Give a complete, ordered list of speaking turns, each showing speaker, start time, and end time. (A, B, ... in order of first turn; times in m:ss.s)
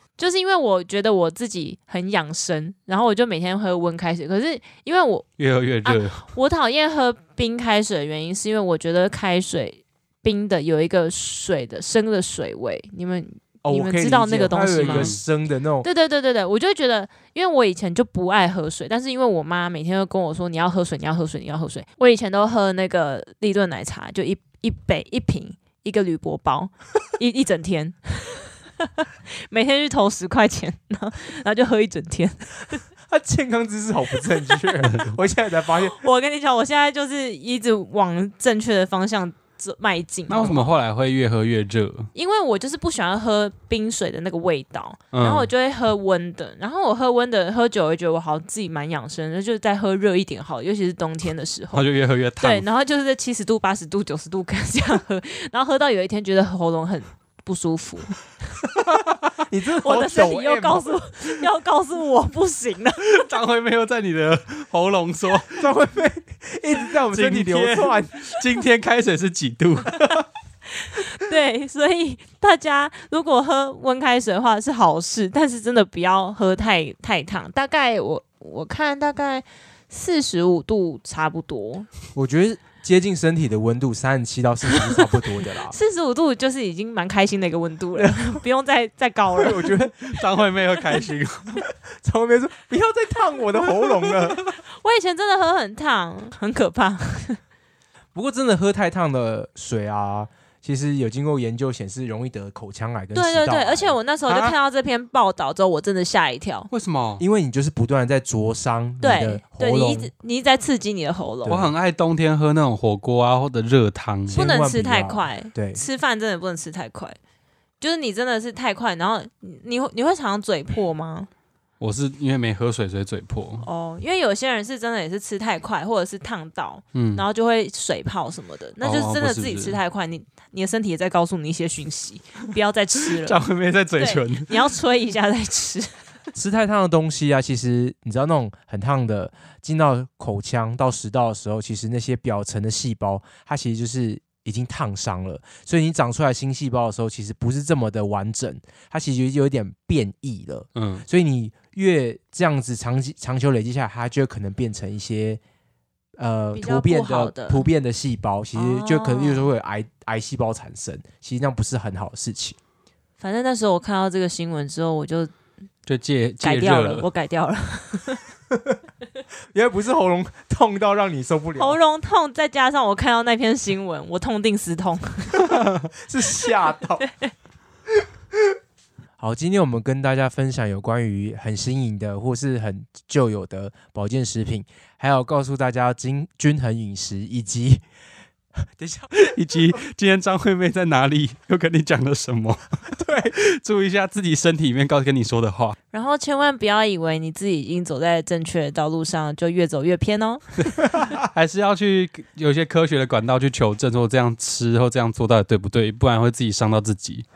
0:00.2-0:05.2 A
0:05.4-0:06.3 B
0:05.8-0:15.1 A
0:13.6-0:15.9 C
0:14.8-0:15.2 B
0:15.8-0:32.8 A
0:33.0-0:36.0 C
0:34.8-0:35.2 B
0:35.8-0:40.7 A
0:40.3-0:42.1 B
0:42.1-0:51.8 A
0:45.1-0:45.5 B
0:51.7-0:52.6 B
0:52.4-0:58.1 A
0:59.3-1:00.9 C
0:59.8-1:03.2 A
1:03.0-1:05.7 B
1:05.6-1:08.2 C
1:07.1-1:10.0 B
1:10.8-1:21.9 A
1:22.2-1:25.7 C
1:25.7-1:29.7 A
1:28.0-1:28.4 C
1:29.4-1:30.1 C
1:30.1-1:31.6 B
1:32.0-1:34.4 C
1:34.7-1:37.4 A
1:38.2-1:44.6 C
1:43.1-1:46.7 A
1:46.7-1:47.2 B
1:47.2-1:50.1 C
1:49.0-1:51.7 A
1:51.4-1:51.7 C
1:51.5-1:54.5 B
1:54.3-1:55.8 C
1:54.3-1:57.2 A
1:57.8-2:01.3 A
2:01.8-2:03.7 B
2:03.6-2:13.4 A
2:06.9-2:07.2 B
2:08.8-2:09.8 B
2:13.2-2:14.5 B
2:14.0-2:16.0 A
2:16.4-2:35.4 C
2:30.8-2:31.1 B
2:36.2-2:42.6 C
2:36.5-2:37.7 A
2:38.5-2:39.5 A
2:43.2-2:45.3 A
2:45.9-2:47.1 B
2:46.4-2:48.2 A
2:48.5-2:48.8 C
2:49.5-2:51.8 C
2:51.6-2:55.6 A
2:55.9-2:57.0 C
2:57.0-2:57.3 A
2:59.2-3:07.8 C
3:08.6-3:09.1 C
3:09.2-3:15.8 B
3:12.9-3:13.4 C
3:15.9-3:20.4 A
3:21.2-3:27.2 B